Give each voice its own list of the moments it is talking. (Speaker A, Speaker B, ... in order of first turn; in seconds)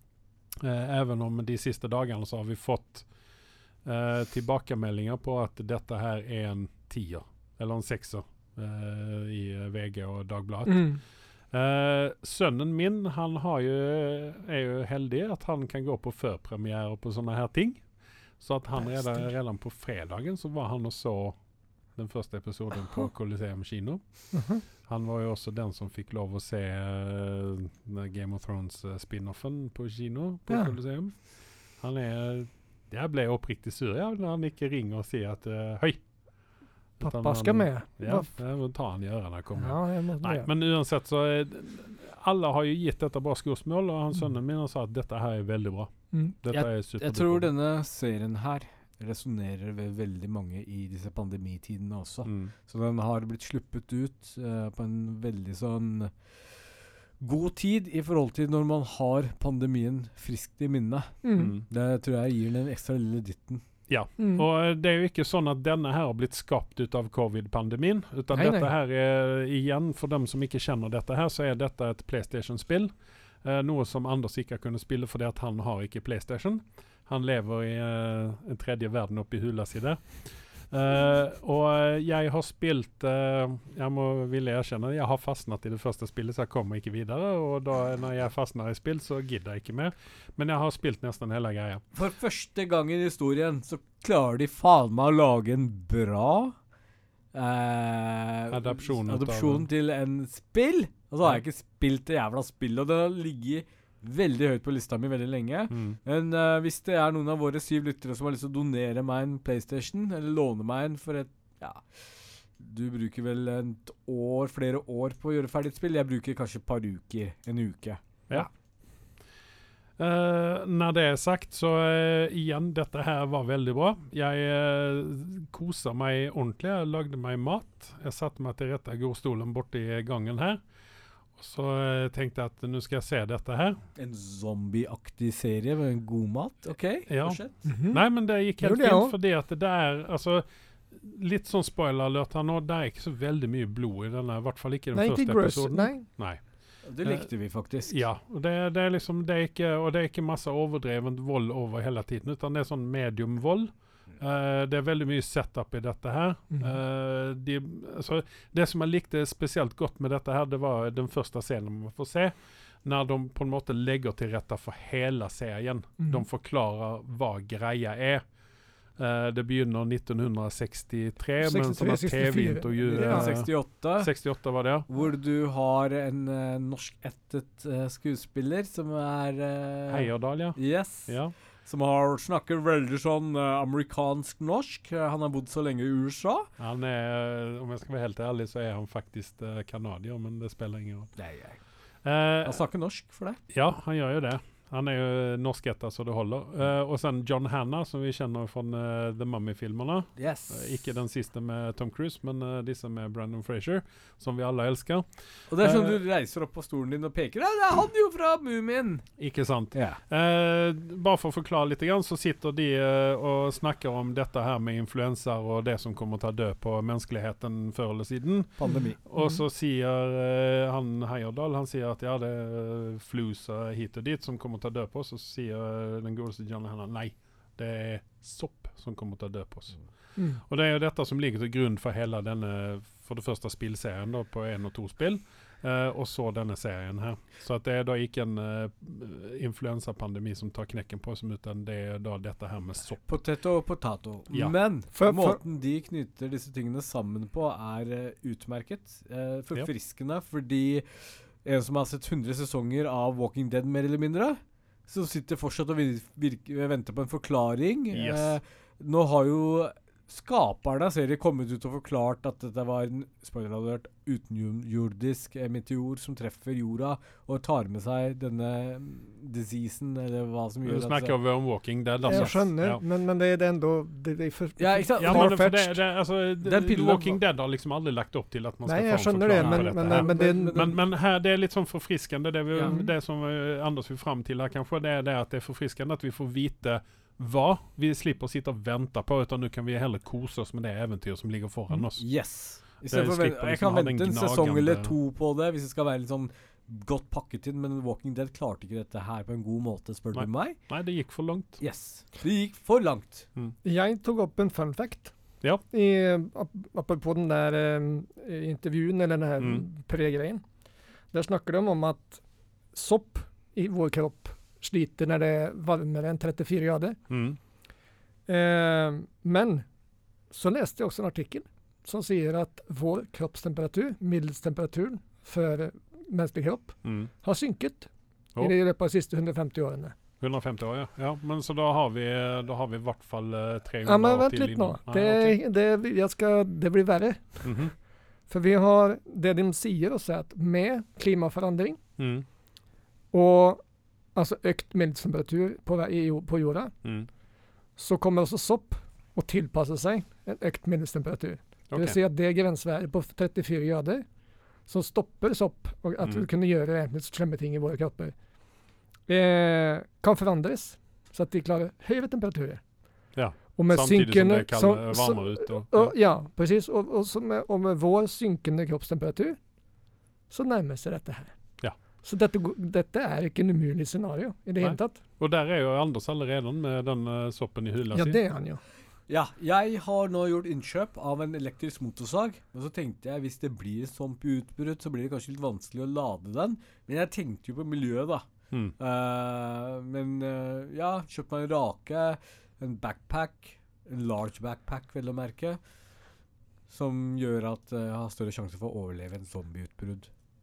Speaker A: 0.6-47.5, 52.2-52.5, 61.4-61.6, 63.9-91.8, 98.5-99.7, 105.7-106.0, 118.3-119.1, 120.0-130.6, 131.3-133.8, 137.1-168.3, 168.9-174.8, 179.9-181.3, 186.6-191.1, 192.0-192.6, 193.5-206.0, 209.2-243.2, 244.3-244.5, 257.9-258.4, 270.6-272.8, 275.0-294.9, 300.1-301.6, 317.1-317.4, 326.8-327.1, 330.2-335.4, 337.4-337.7, 342.0-342.2, 351.7-351.9, 363.1-365.9, 374.6-378.2
Speaker B: 10.7-11.0, 18.8-19.3, 24.3-24.6, 30.5-30.8, 37.0-38.3, 39.6-40.5, 61.2-61.5, 64.2-64.4, 68.3-68.7, 137.6-139.1, 144.9-146.1, 166.0-166.2, 171.4-173.3, 218.6-219.4, 244.9-245.4, 272.1-275.8, 278.6-280.7, 282.6-282.9, 303.6-305.1, 305.7-310.4, 311.1-317.0, 318.2-319.6, 320.3-329.9, 333.8-337.7, 338.3-341.8, 343.1-346.8, 347.8-358.2, 359.0-369.4, 370.3-375.0, 377.9-378.6
Speaker C: 46.5-63.6, 91.9-96.5, 97.3-118.5, 133.9-137.7, 146.8-148.0, 172.9-186.5, 191.2-191.6, 192.4-193.4, 200.2-200.6, 205.5-209.1, 209.7-210.0, 218.6-219.0, 243.1-271.1, 272.1-272.4, 274.6-275.4, 276.4-277.2, 279.4-280.8, 282.5-282.8, 291.9-300.6, 301.6-303.3, 379.1-388.3, 388.8-395.6, 396.7-400.1